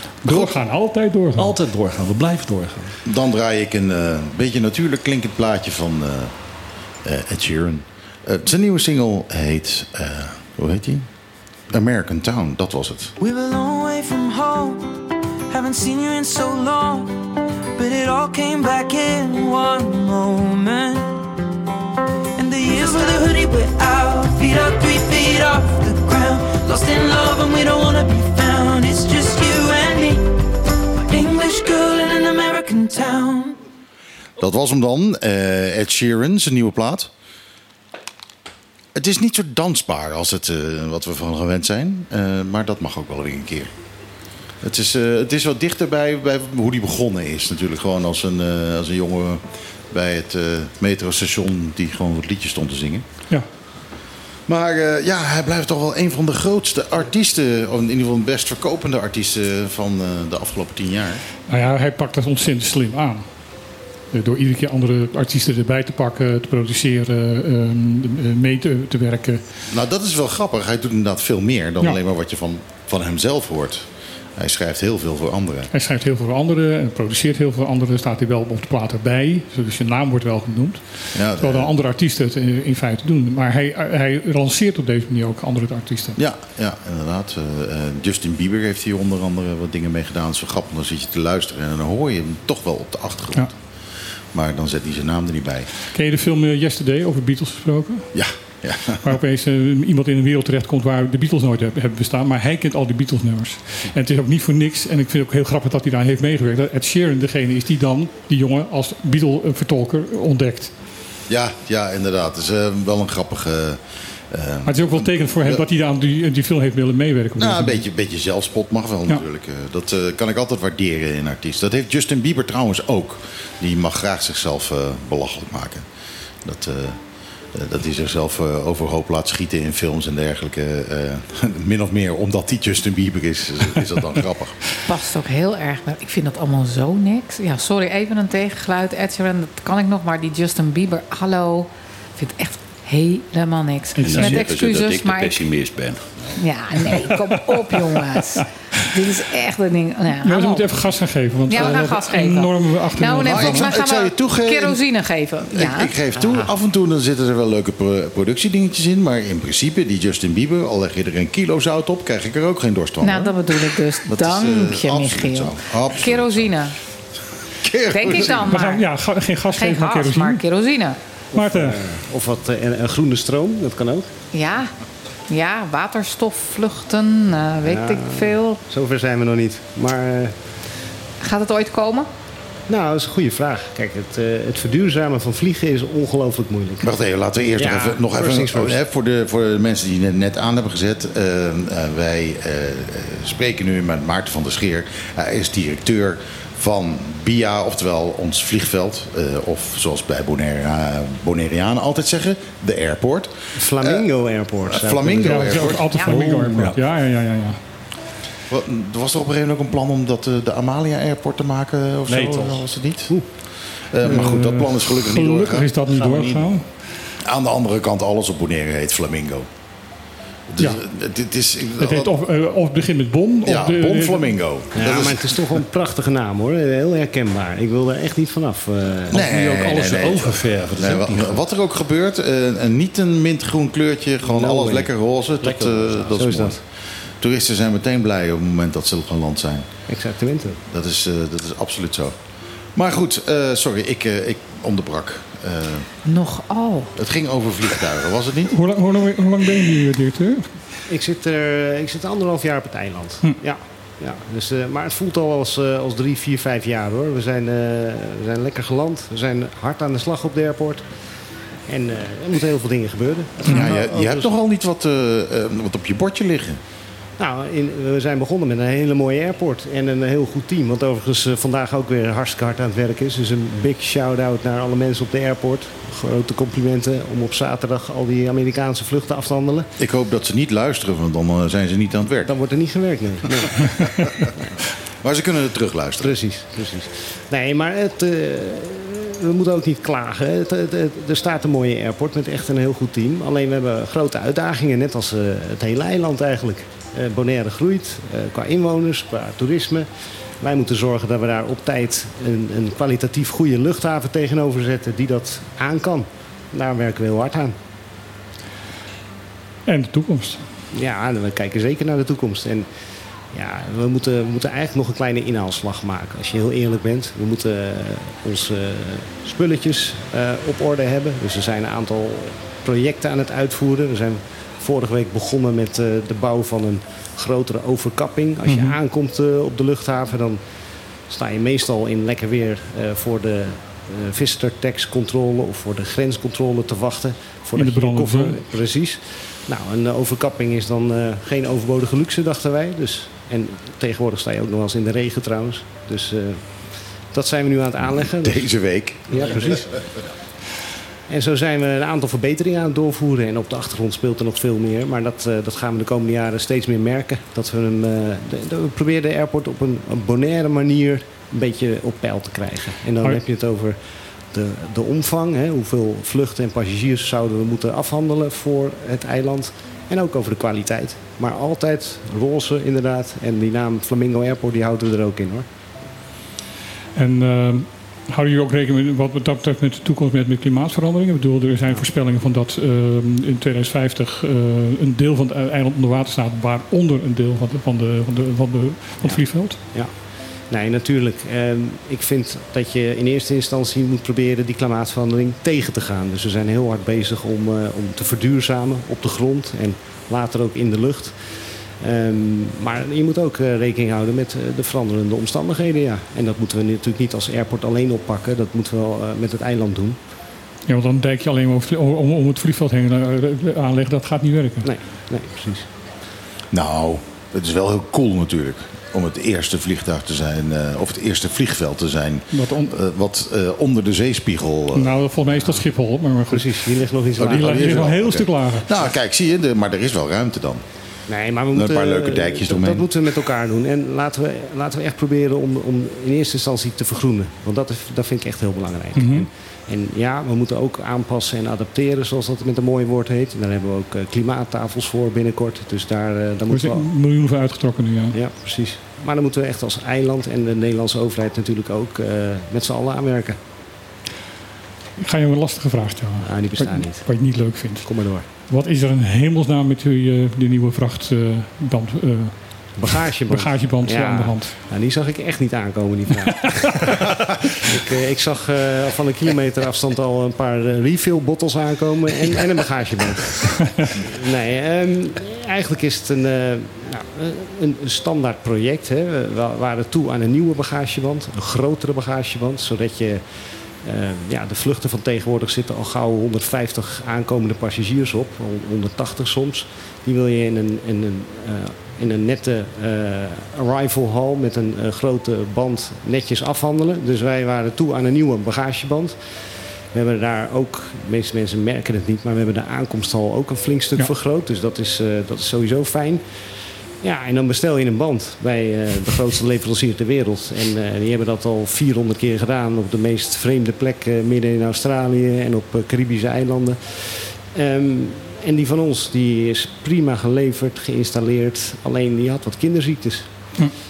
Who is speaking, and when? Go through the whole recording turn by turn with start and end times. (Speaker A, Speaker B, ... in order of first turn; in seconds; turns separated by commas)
Speaker A: 0.2-1.5, Speaker B: 0.2-0.5, Speaker B: 1.4-2.9, Speaker C: 3.0-6.3, Speaker C: 7.0-11.1, Speaker C: 11.7-13.1, Speaker D: 13.2-14.9, Speaker D: 15.5-17.2, Speaker D: 17.8-21.2, Speaker D: 22.4-30.3, Speaker D: 31.1-33.6, Speaker C: 34.4-37.1, Speaker C: 38.9-43.7, Speaker C: 44.6-53.0, Speaker C: 54.5-61.2, Speaker A: 61.5-63.2, Speaker A: 64.1-69.4, Speaker C: 69.7-75.7, Speaker A: 75.7-86.2, Speaker C: 81.1-81.7, Speaker C: 86.2-93.5, Speaker C: 94.3-95.7, Speaker A: 95.9-98.1, Speaker C: 98.1-99.0, Speaker A: 99.0-110.7, Speaker C: 111.3-115.6, Speaker A: 114.7-117.8, Speaker C: 117.4-125.8, Speaker C: 126.4-127.0, Speaker C: 127.5-134.6, Speaker E: 134.9-145.4, Speaker A: 143.9-144.4, Speaker F: 144.0-146.4, Speaker E: 146.4-150.8, Speaker A: 150.2-153.7, Speaker E: 151.5-155.9, Speaker C: 153.2-154.8, Speaker C: 155.5-166.5, Speaker G: 156.2-156.5, Speaker E: 163.0-166.7, Speaker C: 167.6-168.5, Speaker E: 167.9-168.9, Speaker A: 168.5-170.4, Speaker E: 169.5-171.0, Speaker G: 171.3-174.1, Speaker A: 171.3-171.8, Speaker E: 174.3-174.7, Speaker E: 175.3-178.6, Speaker G: 177.6-180.3, Speaker E: 181.2-182.1, Speaker G: 182.7-186.9, Speaker C: 186.8-204.0, Speaker G: 187.6-188.8, Speaker G: 203.5-205.9, Speaker C: 204.7-205.9, Speaker A: 205.2-207.6, Speaker B: 206.0-206.8, Speaker C: 208.5-213.2, Speaker G: 212.1-213.2, Speaker C: 213.9-216.3, Speaker A: 214.0-216.7, Speaker C: 217.2-219.4, Speaker C: 220.5-222.2, Speaker A: 221.8-224.4, Speaker C: 223.4-225.4, Speaker G: 224.7-229.2, Speaker B: 229.1-231.4, Speaker C: 229.1-236.6, Speaker G: 234.2-236.6, Speaker C: 237.2-239.7, Speaker G: 239.9-240.6, Speaker C: 240.7-242.1, Speaker C: 242.7-245.9, Speaker E: 246.0-246.9, Speaker C: 246.9-248.5, Speaker A: 248.5-250.5, Speaker G: 250.9-260.8, Speaker G: 261.7-264.3, Speaker C: 263.4-266.6, Speaker G: 267.2-279.7, Speaker C: 279.8-282.3, Speaker G: 282.2-284.4, Speaker C: 285.0-286.2, Speaker G: 286.0-299.9, Speaker G: 300.4-307.5, Speaker A: 309.7-310.4, Speaker G: 310.7-312.7, Speaker G: 313.3-330.4, Speaker A: 328.4-328.7, Speaker G: 331.1-348.5, Speaker A: 337.6-338.4, Speaker C: 348.2-349.7, Speaker G: 349.1-349.8, Speaker G: 351.1-375.5, Speaker A: 376.9-389.6, Speaker G: 389.0-410.0, Speaker A: 410.7-414.7, Speaker G: 414.6-415.7, Speaker C: 416.5-425.0, Speaker A: 422.3-422.7, Speaker A: 424.7-426.5, Speaker G: 426.3-428.0, Speaker C: 427.2-430.6, Speaker A: 427.2-428.7, Speaker G: 431.1-446.9, Speaker C: 431.5-432.9, Speaker A: 438.9-439.3, Speaker A: 446.5-448.2, Speaker G: 448.1-453.4, Speaker A: 455.0-464.5, Speaker G: 456.2-458.3, Speaker G: 462.8-483.2, Speaker G: 483.8-506.4, Speaker G: 507.0-523.3